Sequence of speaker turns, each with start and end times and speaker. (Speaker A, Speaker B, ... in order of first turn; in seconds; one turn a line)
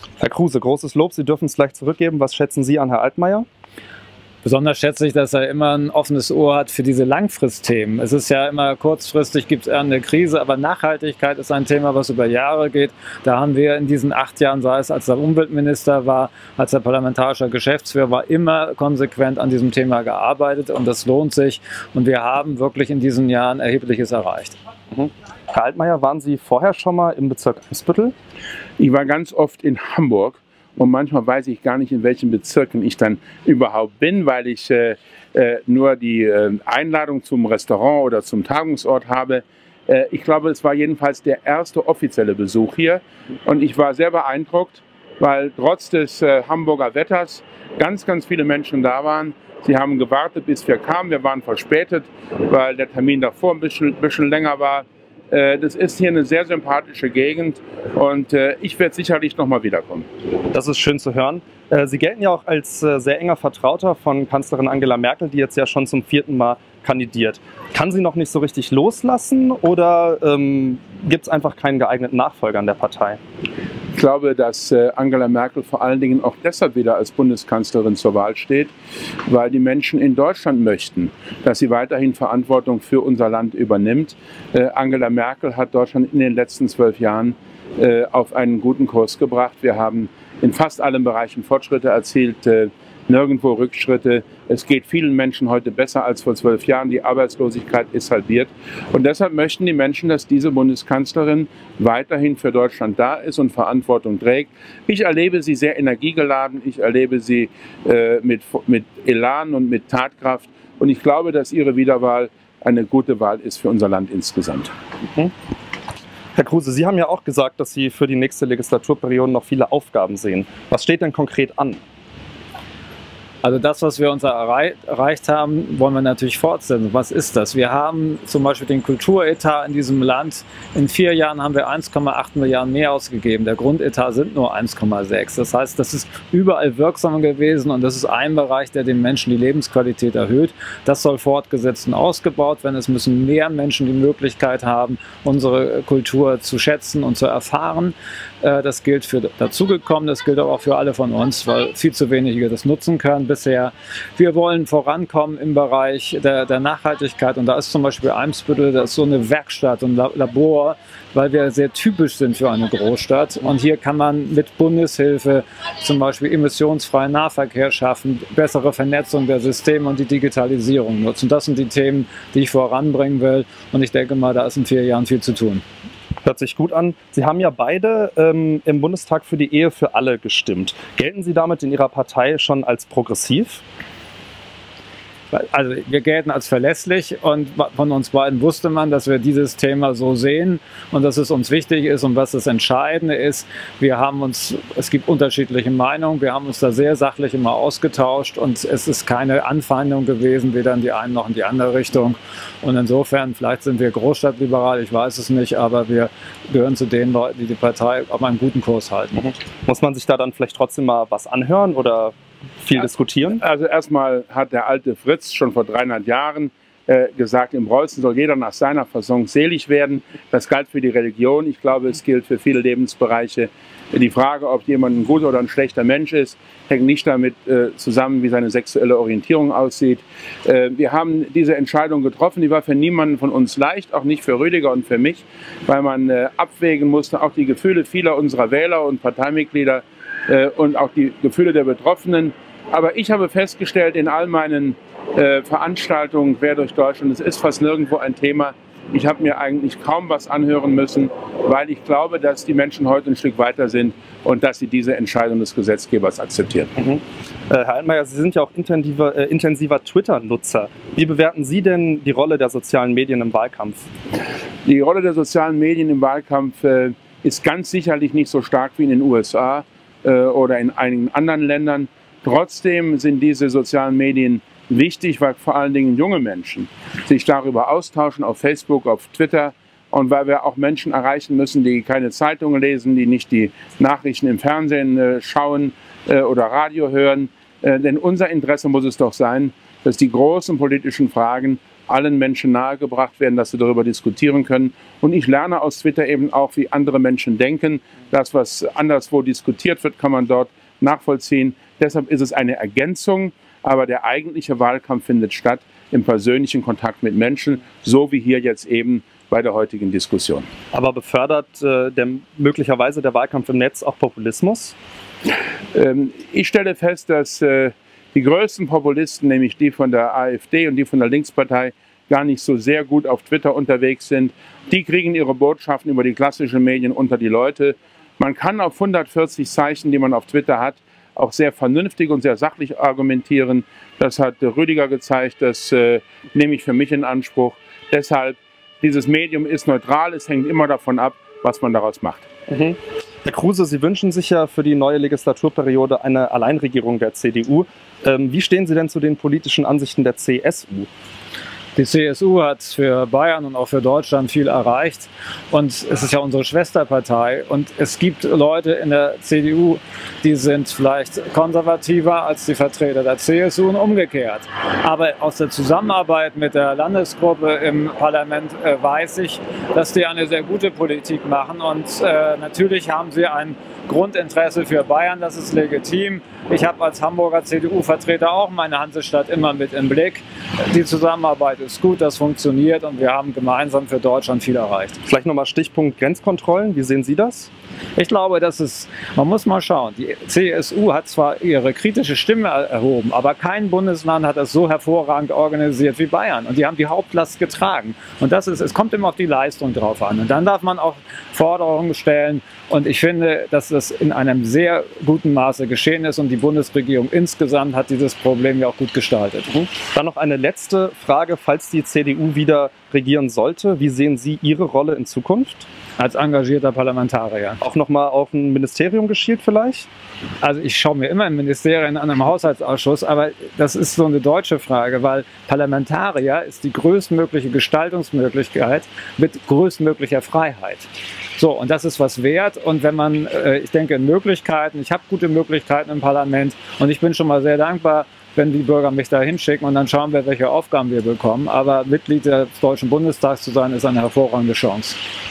Speaker A: 0.2-3.5
Speaker B: 4.4-24.6
Speaker A: 24.9-28.1
Speaker C: 28.8-60.1
Speaker A: 60.5-73.2
Speaker C: 74.0-78.7
Speaker C: 79.3-114.7
Speaker A: 116.4-121.8
Speaker B: 123.4-175.6
Speaker A: 176.2-183.6
Speaker B: 185.3-209.3
Speaker A: 209.2-213.4
Speaker C: 213.4-256.7
Speaker A: 256.8-263.9
Speaker C: 264.6-310.5
Speaker A: 310.7-314.8
Speaker C: 315.7-342.3
Speaker A: 342.5-350.9
Speaker B: 351.8-385.0
Speaker A: 385.1-387.5
Speaker B: 388.0-409.5
Speaker A: 409.5-415.7
Speaker B: 416.0-417.6
Speaker A: 417.6-419.9
Speaker B: 420.4-445.0